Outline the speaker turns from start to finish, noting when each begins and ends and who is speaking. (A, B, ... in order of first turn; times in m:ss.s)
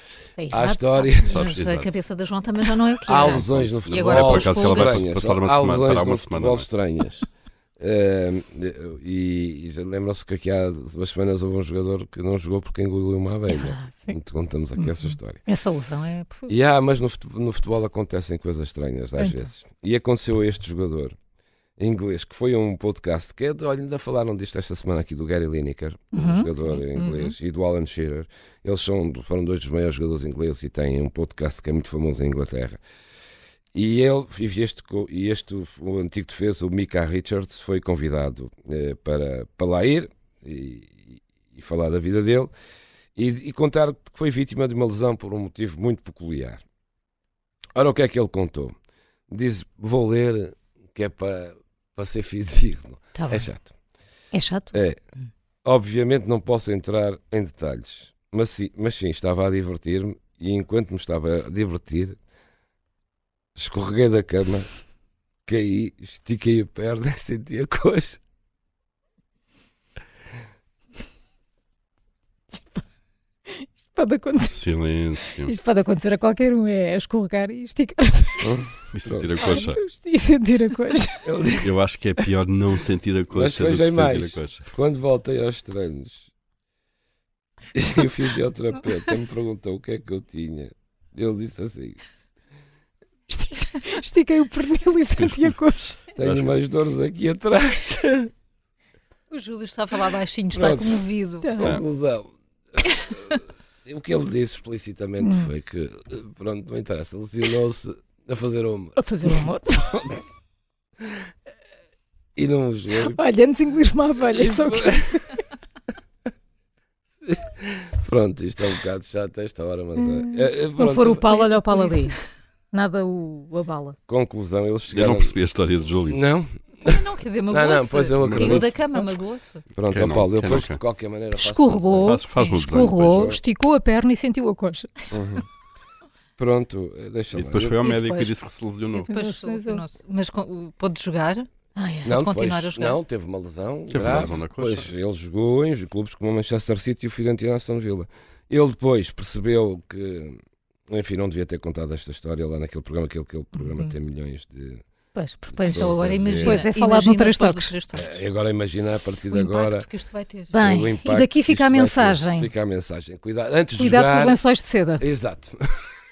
0:00.4-0:01.1 A
0:00.5-0:01.5 B
0:01.3-0:01.9 C
0:01.3-0:05.0 D
0:03.1-0:07.3 B
0:03.3-0:06.7 C
0:07.8-0:15.4 B
0:13.5-0:14.2 A
0:15.4-0:16.5 A
0:16.5-0:21.2 B
0:19.2-0:19.5 A
0:21.8-0:32.8 B
0:26.1-0:26.5 A
0:27.0-0:27.4 D
0:33.7-0:42.5 B
0:43.2-0:46.6 B
0:47.8-0:48.7 B
0:49.3-0:53.7 B
0:53.2-0:53.5 A
0:54.3-0:54.8 A
0:54.7-0:55.0 B
0:55.6-1:02.2 B
1:03.6-1:04.7 B
1:05.5-1:08.2 B
1:12.5-1:12.8 A
1:13.5-1:14.6 A
1:14.4-1:15.5 C
1:15.4-1:18.5 A
1:18.4-1:19.4 B
1:18.9-1:19.8 C
1:19.4-1:21.4 A
1:21.2-1:21.7 B
1:21.6-1:24.7 C
1:23.3-1:26.3 B
1:27.8-1:32.0 B
1:33.3-1:36.0 A
1:35.2-1:35.6 C
1:36.2-1:38.3 B
1:36.2-1:36.5 C
1:39.3-1:41.5 D
1:40.5-1:41.0 B
1:41.4-1:41.8 A
1:41.6-1:49.4 B
1:45.2-1:45.5 A
1:49.0-1:50.0 A
1:49.9-1:50.2 B
1:52.4-1:53.2 B
1:53.1-1:55.4 A
1:54.4-1:55.0 B
1:57.3-2:01.5 B
2:00.0-2:02.2 A
2:01.8-2:02.1 D
2:02.7-2:04.0 A
2:04.1-2:05.4 B
2:04.9-2:06.2 C
2:06.1-2:07.0 B
2:06.8-2:09.6 D
2:07.5-2:08.8 B
2:08.2-2:08.7 C
2:09.8-2:12.2 B
2:09.9-2:10.8 C
2:11.4-2:14.9 A
2:12.0-2:13.3 C
2:13.0-2:13.4 B
2:15.1-2:15.4 B
2:16.4-2:17.8 B
2:17.3-2:19.1 C
2:17.8-2:18.3 A
2:18.9-2:19.8 A
2:19.1-2:21.5 D
2:21.8-2:22.2 A
2:22.0-2:34.8 B
2:22.1-2:23.0 D
2:23.9-2:24.9 C
2:35.2-2:37.7 A
2:35.5-2:36.6 B
2:35.7-2:38.2 D
2:37.9-2:39.9 B
2:39.3-2:40.5 D
2:40.5-2:42.5 A
2:40.6-2:44.4 B
2:43.8-2:45.0 A
2:45.0-2:45.8 B